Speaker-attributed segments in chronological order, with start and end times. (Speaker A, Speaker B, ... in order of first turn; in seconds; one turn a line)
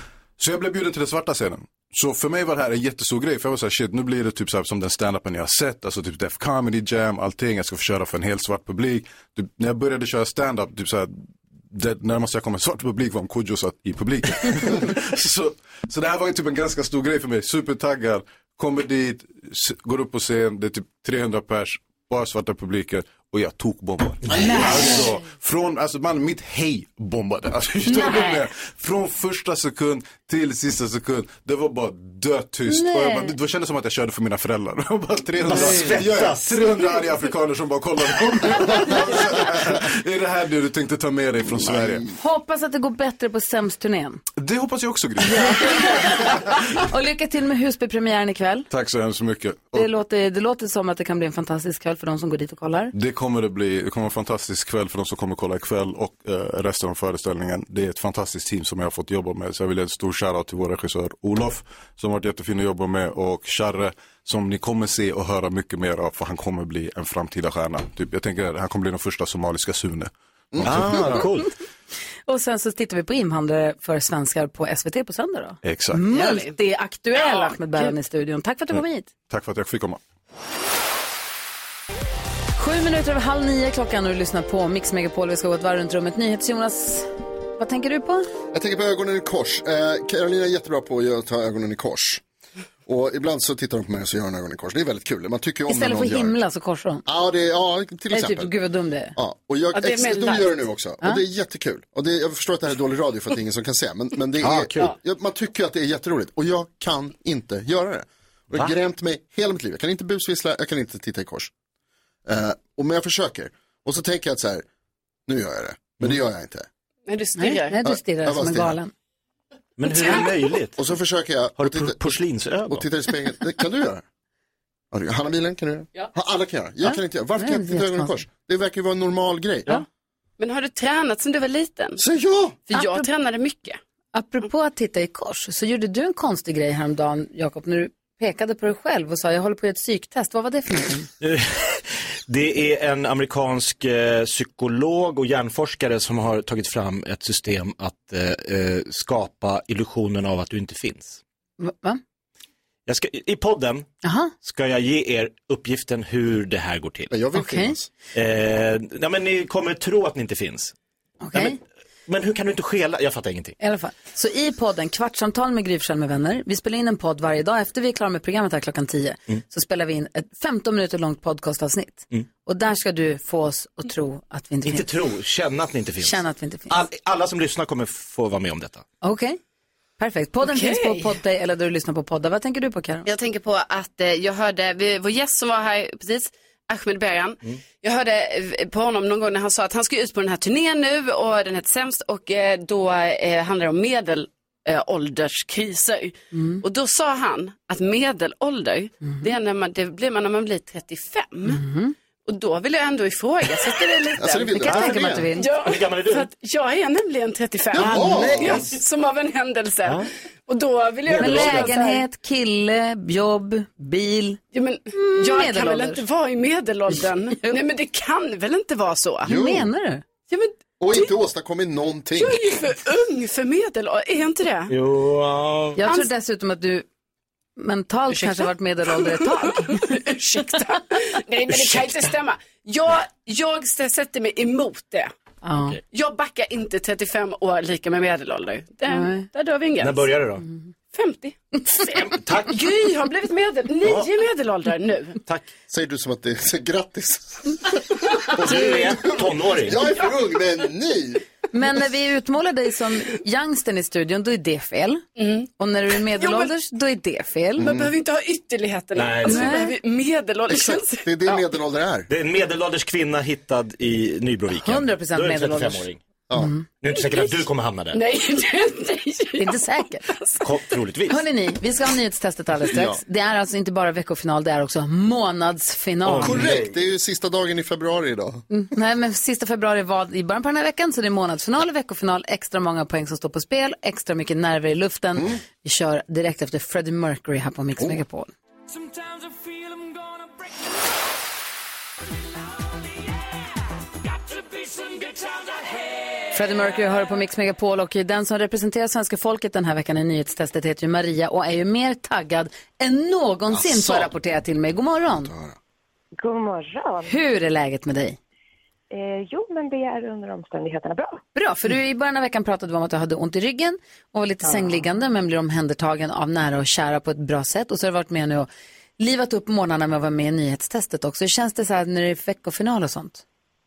Speaker A: 0.4-42.0
Speaker B: 24.4-25.0
Speaker B: 27.9-28.4
Speaker B: 32.7-33.3
Speaker C: 35.4-36.6
Speaker B: 42.1-44.2
Speaker A: 44.4-46.0
Speaker B: 45.3-48.7
Speaker A: 48.7-49.9
Speaker B: 49.7-52.9
Speaker A: 52.9-71.5
Speaker D: 70.5-71.0
Speaker C: 70.6-71.5
Speaker B: 72.3-79.1
Speaker A: 75.6-76.1
Speaker E: 76.1-76.5
Speaker E: 77.2-77.5
Speaker A: 78.7-80.0
Speaker B: 82.6-88.3
Speaker D: 88.5-92.2
Speaker D: 92.9-96.4
Speaker B: 95.7-97.0
Speaker D: 97.1-98.5
Speaker B: 98.1-99.2
Speaker D: 99.2-111.5
Speaker E: 99.7-100.6
Speaker C: 104.4-104.9
Speaker D: 112.3-114.7
Speaker D: 115.3-116.7
Speaker E: 117.1-117.8
Speaker B: 117.4-118.9
Speaker D: 117.8-118.8
Speaker C: 119.8-120.8
Speaker D: 120.8-122.2
Speaker C: 121.6-122.9
Speaker D: 122.7-124.0
Speaker D: 124.9-129.8
Speaker B: 126.8-128.2
Speaker E: 130.4-132.0
Speaker D: 132.0-132.6
Speaker E: 132.7-133.8
Speaker B: 132.7-133.1
Speaker B: 134.1-141.1
Speaker C: 141.2-151.2
Speaker B: 151.6-152.0
Speaker C: 152.9-153.9
Speaker B: 154.0-154.3
Speaker C: 154.4-157.1
Speaker D: 157.1-157.9
Speaker B: 157.3-157.8
Speaker C: 158.2-160.7
Speaker B: 161.2-161.6
Speaker C: 161.3-163.6
Speaker B: 163.6-174.9
Speaker C: 174.7-178.8
Speaker B: 176.0-176.8
Speaker B: 179.0-179.4
Speaker B: 180.0-183.1
Speaker E: 180.4-181.2
Speaker E: 183.1-201.6
Speaker B: 196.3-196.6
Speaker B: 201.5-201.9
Speaker E: 202.3-212.0
Speaker B: 204.0-205.5
Speaker D: 204.2-205.3
Speaker C: 205.5-206.3
Speaker D: 207.7-208.7
Speaker C: 207.8-208.6
Speaker C: 211.1-211.7
Speaker B: 211.2-214.4
Speaker E: 214.5-219.3
Speaker B: 214.9-216.0
Speaker D: 219.2-219.7
Speaker B: 219.3-220.0
Speaker E: 220.3-221.1
Speaker D: 220.8-222.4
Speaker E: 222.2-224.7
Speaker C: 224.7-225.8
Speaker B: 225.8-226.8
Speaker B: 227.6-229.8
Speaker E: 229.5-235.1
Speaker C: 231.5-232.1
Speaker B: 235.4-235.8
Speaker E: 235.9-240.2
Speaker B: 238.9-239.3
Speaker C: 239.8-240.4
Speaker E: 240.9-245.2
Speaker C: 241.8-242.6
Speaker D: 245.7-251.2
Speaker C: 248.4-249.8
Speaker B: 251.5-255.0
Speaker E: 255.2-255.5
Speaker B: 255.6-257.7
Speaker E: 256.1-256.5
Speaker D: 257.6-257.9
Speaker E: 257.6-261.5
Speaker C: 258.9-259.6
Speaker B: 259.2-259.7
Speaker D: 260.5-262.1
Speaker C: 262.1-266.0
Speaker B: 264.6-266.6
Speaker C: 266.8-268.0
Speaker E: 267.0-269.6
Speaker B: 269.4-270.1
Speaker E: 270.1-270.4
Speaker C: 270.4-271.2
Speaker B: 271.1-276.5
Speaker D: 272.7-273.0
Speaker C: 276.0-276.8
Speaker D: 276.2-278.4
Speaker B: 278.5-288.3
Speaker B: 296.3-305.3
Speaker D: 303.5-304.1
Speaker D: 305.1-305.6
Speaker F: 306.2-307.2
Speaker B: 307.1-308.2
Speaker F: 308.9-311.2
Speaker B: 311.4-323.2